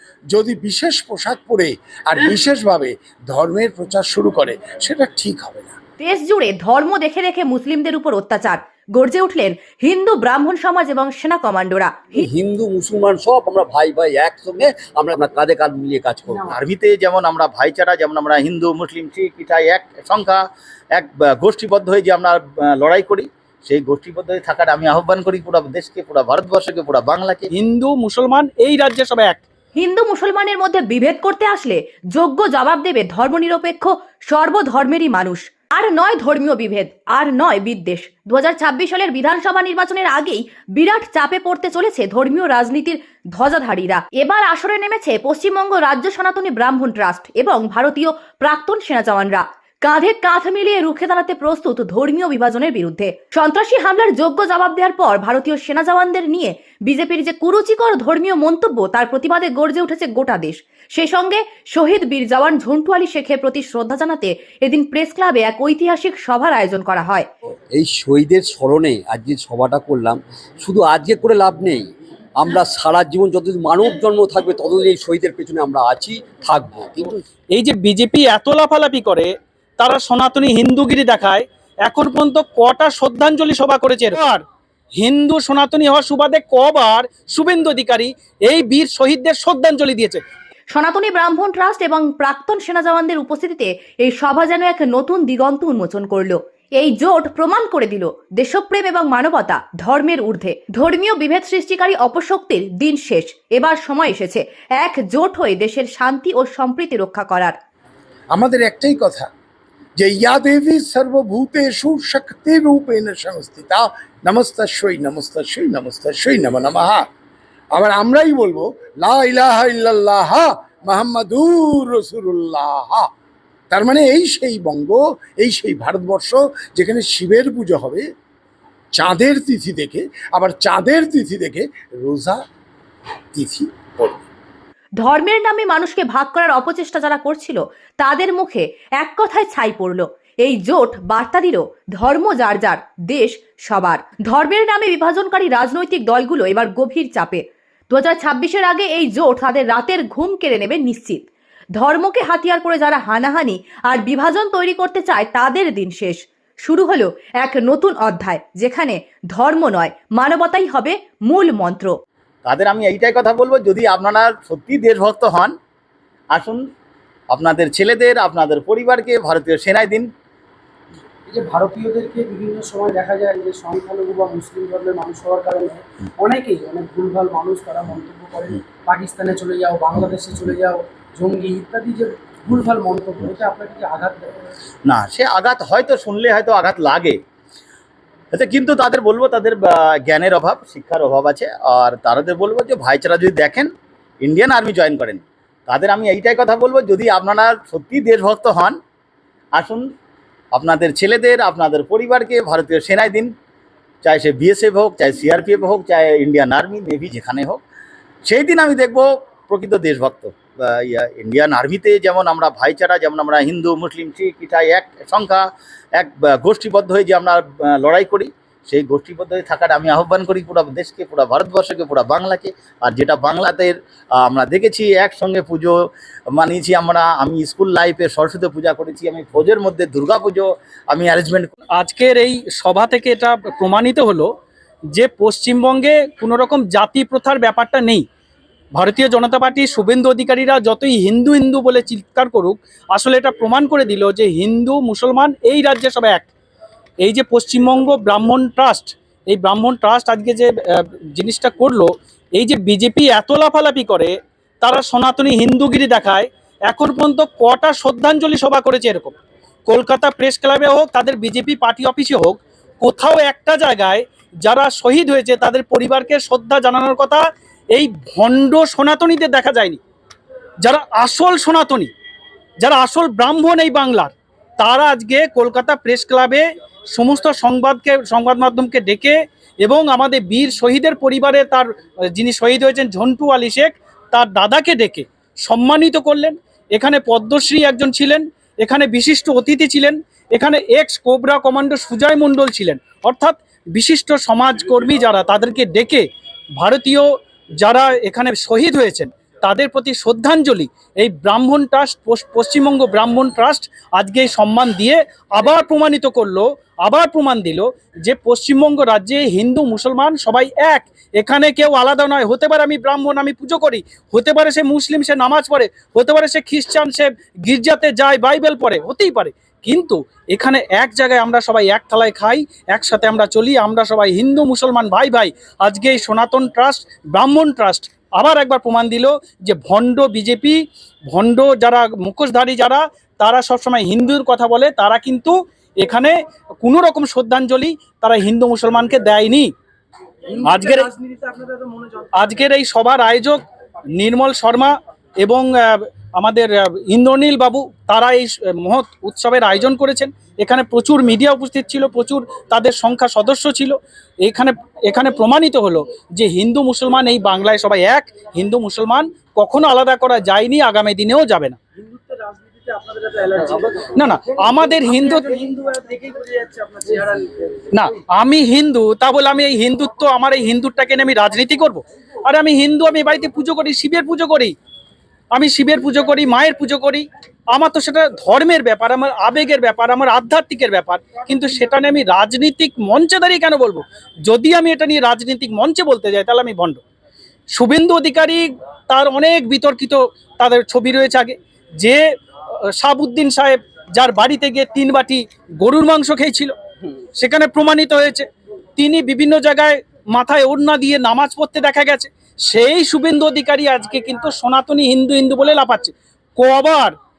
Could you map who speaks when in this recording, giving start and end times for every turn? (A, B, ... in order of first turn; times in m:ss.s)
0:00.3-0:05.7 A
0:06.0-0:12.3 B
0:12.3-0:16.3 C
0:16.3-0:16.6 D
0:16.5-0:20.4 E
0:20.9-0:27.5 E
0:27.5-0:29.4 F
0:29.7-1:07.3 B
1:07.8-1:11.8 C
1:12.4-1:17.0 C
1:17.5-1:24.4 F
1:25.0-1:30.2 F
1:30.7-1:47.6 B
1:48.3-1:49.3 A
1:50.0-1:57.0 A
1:57.7-2:03.1 A
2:03.7-2:08.0 A
2:09.0-2:12.4 A
2:13.3-2:14.2 A
2:15.0-2:42.0 B
2:42.4-2:45.6 E
2:46.3-2:46.7 E
2:47.3-2:50.1 E
2:51.3-3:04.4 D
3:04.8-3:07.2 E
3:08.3-3:18.8 E
3:19.6-3:19.9 E
3:20.5-3:23.3 E
3:24.0-3:27.6 E
3:28.2-3:45.8 E
3:46.3-3:51.5 E
3:51.8-3:54.3 F
3:54.9-3:58.0 F
3:58.8-4:06.3 F
4:07.0-4:19.1 F
4:19.7-4:29.8 F
4:30.6-4:31.9 F
4:32.6-4:56.1 F
4:56.6-4:57.1 F
4:57.6-5:39.5 F
5:40.3-5:42.4 D
5:40.4-5:40.9 F
5:42.2-5:43.4 F
5:44.0-6:01.6 F
6:01.8-6:07.5 D
6:03.9-6:05.4 F
6:07.7-6:14.5 F
6:15.3-6:26.8 F
6:27.5-6:32.0 F
6:32.8-6:36.5 F
6:37.2-6:47.0 F